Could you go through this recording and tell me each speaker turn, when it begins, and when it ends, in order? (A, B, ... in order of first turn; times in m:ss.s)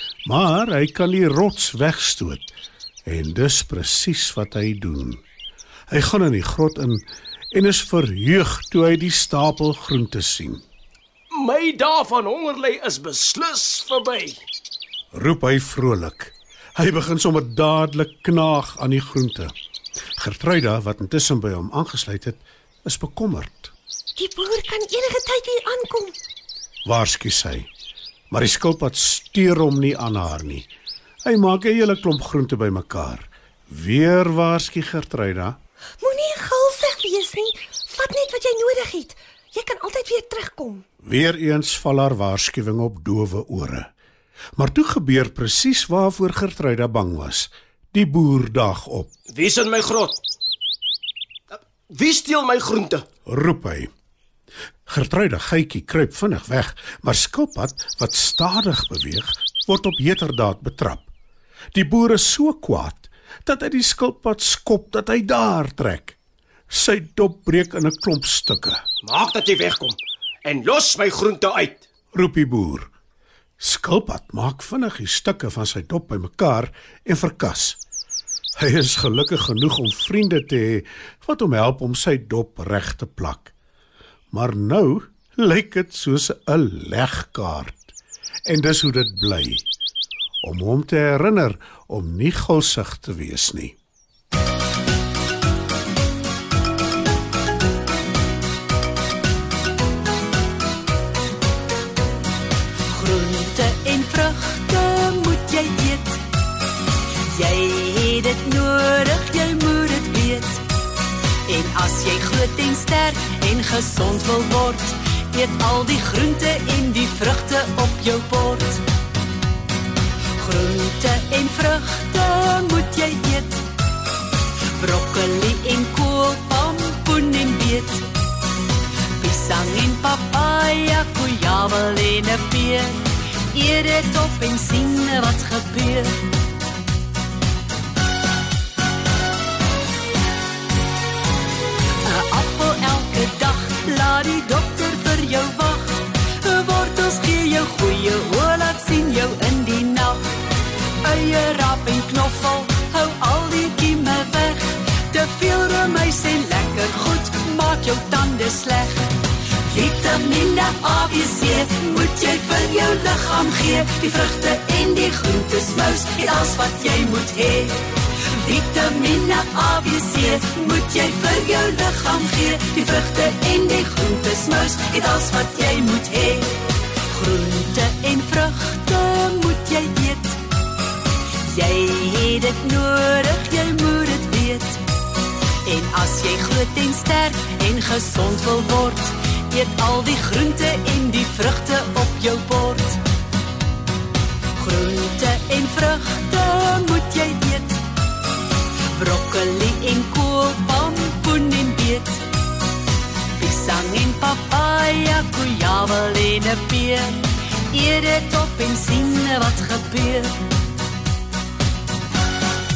0:00.3-0:02.5 A
0:03.1-0:05.2 A
0:05.9-0:10.6 A
0:11.3-0:14.4 B
0:15.1-0:19.5 A
0:20.2-0:23.7 A
0:24.2-0:26.2 C
0:26.8-0:27.7 A
0:28.3-0:30.7 A
0:31.2-0:35.6 A
0:36.0-0:40.8 C
0:41.0-0:43.9 A
0:44.6-0:49.1 A
0:49.3-0:50.2 B
0:51.5-0:53.0 B
0:53.3-0:53.9 A
0:54.9-1:01.1 A
1:01.7-1:06.2 A
1:06.7-1:08.8 A
1:09.0-1:11.8 B
1:12.1-1:12.9 A
1:13.6-1:17.8 A
1:18.6-1:23.5 A
1:24.3-1:28.0 A
1:28.5-1:29.7 A
1:30.4-1:33.8 A
1:42.9-1:46.2 D
1:47.2-1:50.6 D
1:51.5-1:58.8 D
2:00.4-2:03.6 D
2:04.8-2:08.1 D
2:09.2-2:16.3 D
2:22.0-2:30.3 D
2:31.0-3:00.4 D
3:01.4-3:04.8 D
3:05.6-3:13.0 D
3:14.6-3:17.8 D
3:18.9-3:22.3 D
3:23.4-3:30.4 D